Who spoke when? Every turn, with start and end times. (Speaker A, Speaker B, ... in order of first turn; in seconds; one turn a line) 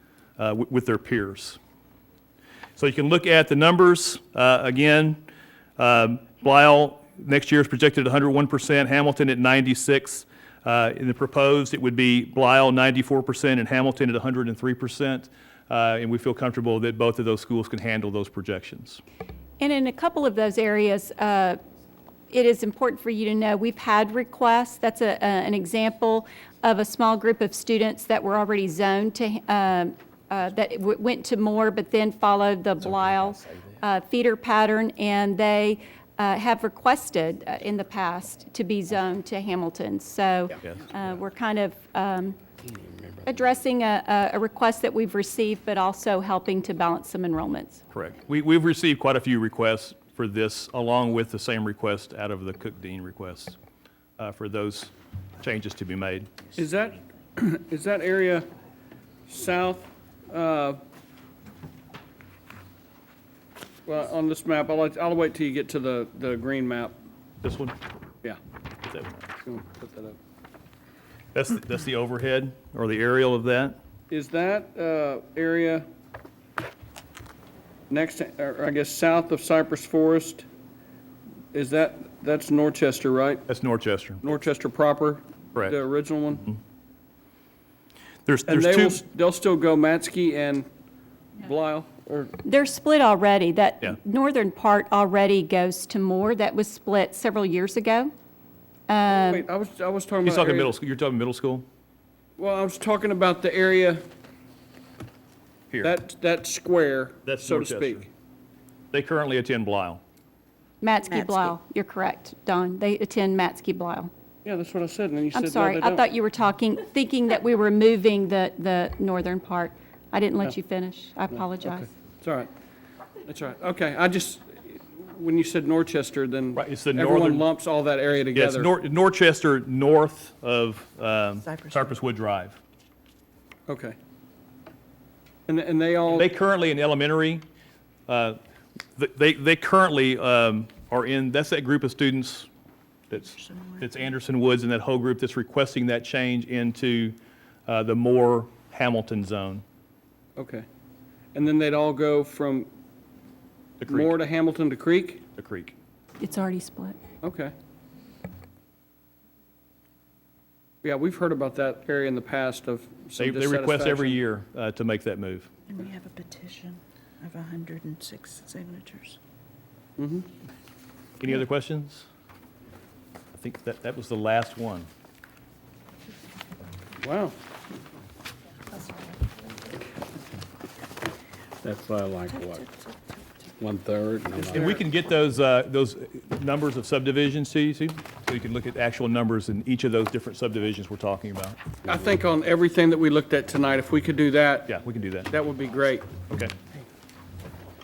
Speaker A: 0.4-1.6
Speaker A: 2.8-5.2
Speaker A: 5.8-19.0
Speaker B: 19.6-21.6
Speaker B: 22.3-42.4
Speaker C: 42.6-43.6
Speaker B: 43.2-47.8
Speaker A: 47.9-53.6
Speaker A: 54.2-56.3
Speaker D: 56.6-58.4
Speaker D: 59.3-60.8
Speaker D: 63.9-66.9
Speaker A: 67.4-67.7
Speaker A: 68.9-69.3
Speaker D: 69.5-70.2
Speaker A: 71.3-73.8
Speaker D: 74.1-75.8
Speaker D: 77.9-80.5
Speaker D: 81.5-83.4
Speaker A: 83.5-84.2
Speaker D: 84.2-86.4
Speaker A: 88.2-89.0
Speaker D: 88.5-90.7
Speaker D: 91.4-92.3
Speaker B: 92.4-98.1
Speaker B: 98.9-99.5
Speaker D: 99.4-100.7
Speaker A: 100.2-101.7
Speaker D: 102.4-104.0
Speaker A: 105.7-106.0
Speaker D: 105.8-108.0
Speaker A: 107.2-108.0
Speaker A: 108.9-110.0
Speaker B: 110.8-114.1
Speaker D: 114.4-116.0
Speaker B: 115.3-121.9
Speaker D: 122.2-122.5
Speaker D: 123.3-128.7
Speaker A: 126.5-127.5
Speaker A: 128.3-132.6
Speaker D: 133.7-133.9
Speaker D: 135.5-136.2
Speaker A: 136.1-137.4
Speaker A: 138.1-138.4
Speaker A: 138.9-142.5
Speaker A: 143.1-149.6
Speaker D: 150.4-150.6
Speaker D: 151.3-152.7
Speaker A: 153.8-154.2
Speaker D: 153.9-155.2
Speaker A: 155.3-155.7
Speaker B: 156.2-157.0
Speaker D: 157.2-157.5
Speaker D: 160.8-164.2
Speaker A: 163.2-165.5
Speaker E: 165.7-169.2
Speaker A: 171.2-172.1
Speaker A: 173.3-174.9
Speaker D: 177.0-177.3
Speaker C: 181.6-182.8
Speaker C: 183.6-184.6
Speaker A: 184.5-191.6
Speaker D: 191.9-194.7
Speaker A: 194.7-195.3
Speaker D: 195.3-196.1